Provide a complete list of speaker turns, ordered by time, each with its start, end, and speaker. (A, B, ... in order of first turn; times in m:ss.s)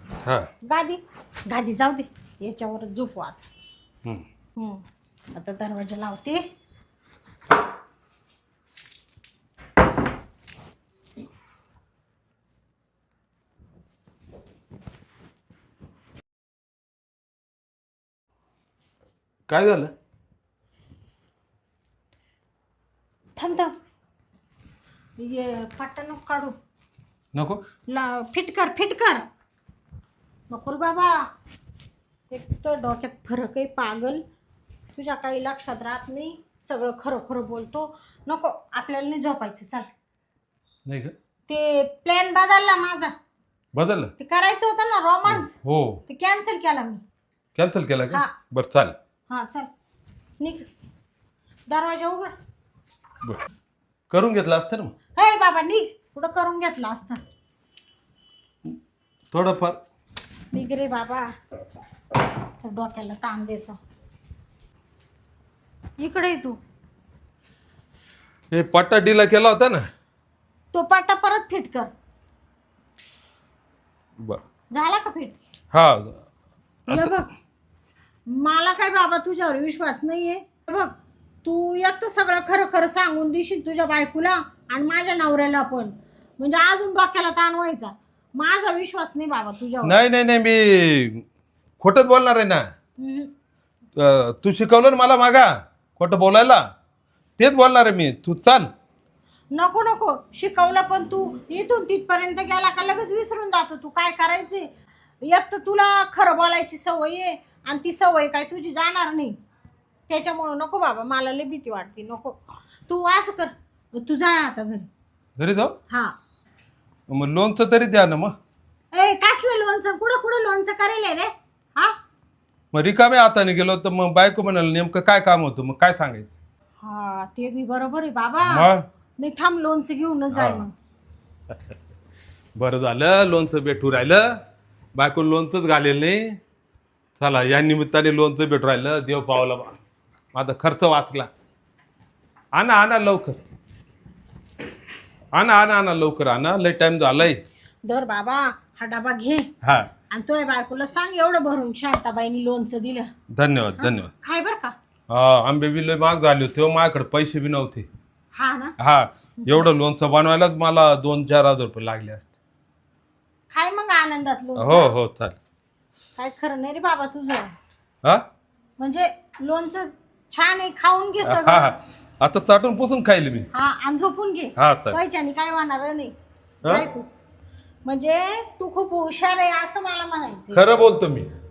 0:00.6-0:03.5 A
0:04.6-0:06.4 A
0:19.5-0:19.9 B
0:23.4-0:23.7 A
0:25.2-0:26.6 A
0:27.3-0:27.6 B
0:27.9-0:29.2 A
0:30.5-0:31.3 A
0:32.3-0:34.2 A
0:35.0-0:39.9 A
0:40.9-0:41.1 B
0:41.5-0:43.1 A
0:43.7-0:44.1 B
0:44.2-0:45.6 A
0:45.3-0:46.0 B
0:46.1-0:47.0 A
0:47.6-0:49.0 B
0:49.3-0:49.7 A
0:50.4-0:50.7 A
0:51.7-0:52.3 A
0:54.1-0:54.9 B
0:55.2-0:57.2 A
0:59.3-0:59.8 B
1:00.5-1:01.3 A
1:02.6-1:03.8 A
1:06.0-1:06.6 A
1:08.5-1:09.9 B
1:10.7-1:11.9 A
1:14.7-1:15.4 A
1:15.7-1:16.2 B
1:16.9-1:17.1 B
1:16.9-1:17.4 A
1:18.3-1:30.0 A
1:29.8-1:31.2 B
1:31.8-1:32.7 B
1:33.0-1:33.3 A
1:34.0-1:36.6 B
1:37.4-1:38.7 B
1:39.5-1:44.7 A
1:45.2-1:49.4 A
1:50.1-1:54.9 A
1:55.4-1:55.8 B
1:57.1-1:58.4 B
1:58.9-2:02.0 A
2:02.7-2:06.4 B
2:06.8-2:08.7 A
2:08.4-2:08.8 B
2:09.2-2:10.7 A
2:10.3-2:10.6 B
2:12.6-2:14.4 B
2:15.0-2:16.4 B
2:17.2-2:19.8 B
2:20.3-2:21.3 B
2:22.6-2:23.4 B
2:25.3-2:27.4 B
2:27.8-2:29.5 A
2:29.6-2:29.9 B
2:30.1-2:33.1 A
2:33.3-2:34.1 B
2:33.8-2:34.8 A
2:35.1-2:37.9 B
2:38.4-2:38.8 A
2:38.8-2:42.3 B
2:43.5-2:44.9 A
2:44.6-2:45.4 B
2:46.2-2:47.5 A
2:48.8-2:51.7 A
2:51.2-2:53.5 B
2:53.5-2:57.1 A
2:54.6-2:55.0 B
2:57.8-3:00.6 A
3:00.5-3:01.3 B